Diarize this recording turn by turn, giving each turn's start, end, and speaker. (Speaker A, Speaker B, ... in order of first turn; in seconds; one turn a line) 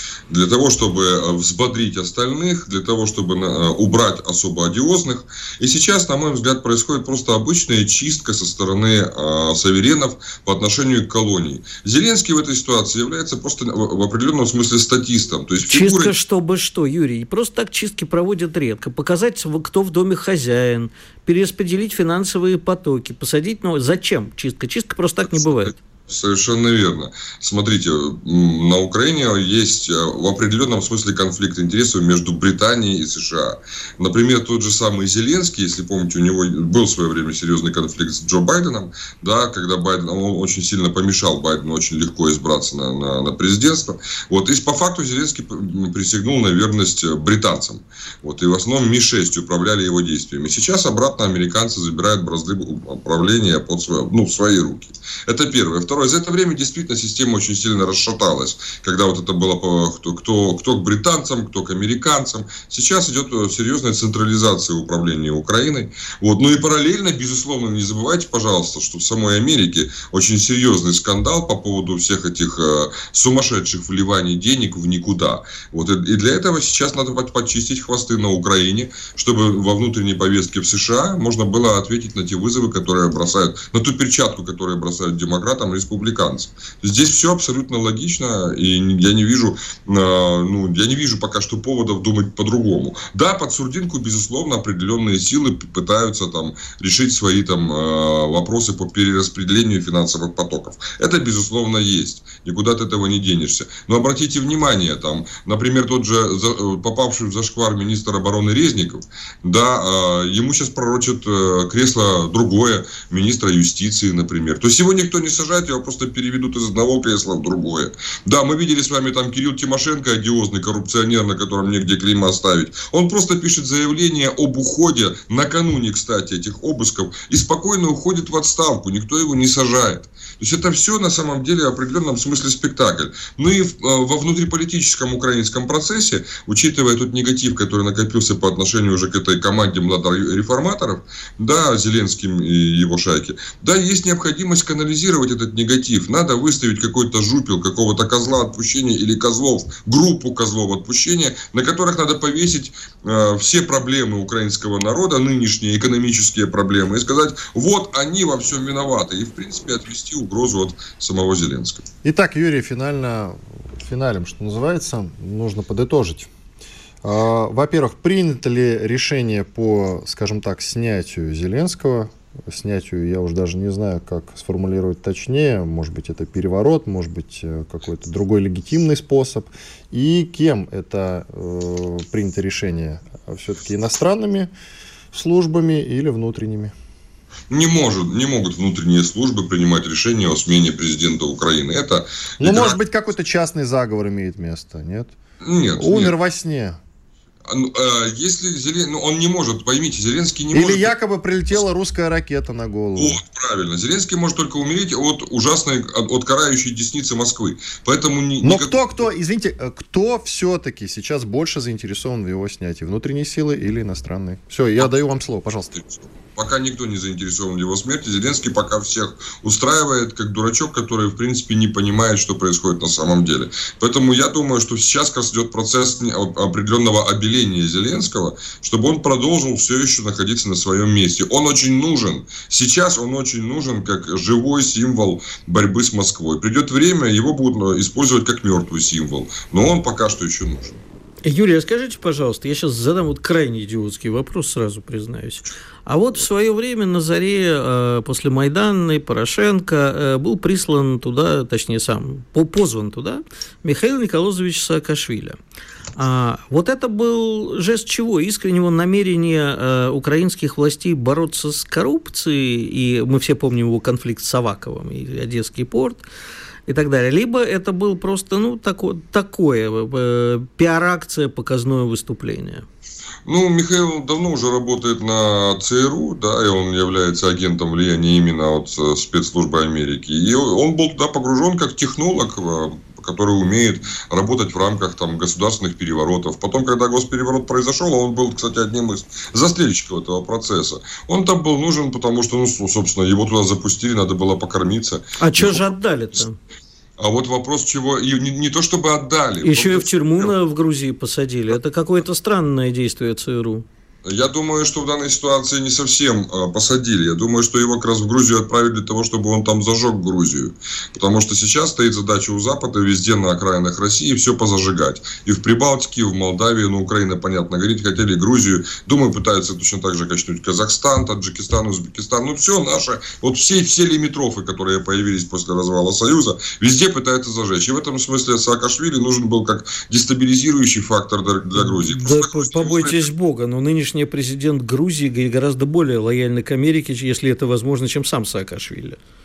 Speaker A: 0.3-16.1
Speaker B: 15.7-25.8
Speaker A: 26.1-161.8
Speaker C: 162.0-166.3
Speaker C: 167.0-184.5
Speaker C: 185.1-186.7
Speaker A: 187.5-192.8
Speaker C: 192.4-195.2
Speaker A: 195.4-196.2
Speaker C: 195.8-196.8
Speaker A: 197.4-200.9
Speaker C: 200.5-203.2
Speaker A: 202.9-208.8
Speaker C: 208.4-215.8
Speaker A: 215.8-240.8
Speaker B: 241.2-255.4
Speaker B: 255.9-266.0
Speaker B: 266.7-272.6
Speaker A: 273.2-295.6
Speaker B: 295.2-296.4
Speaker A: 297.0-300.3
Speaker B: 299.4-303.6
Speaker A: 304.0-333.1
Speaker B: 331.6-339.0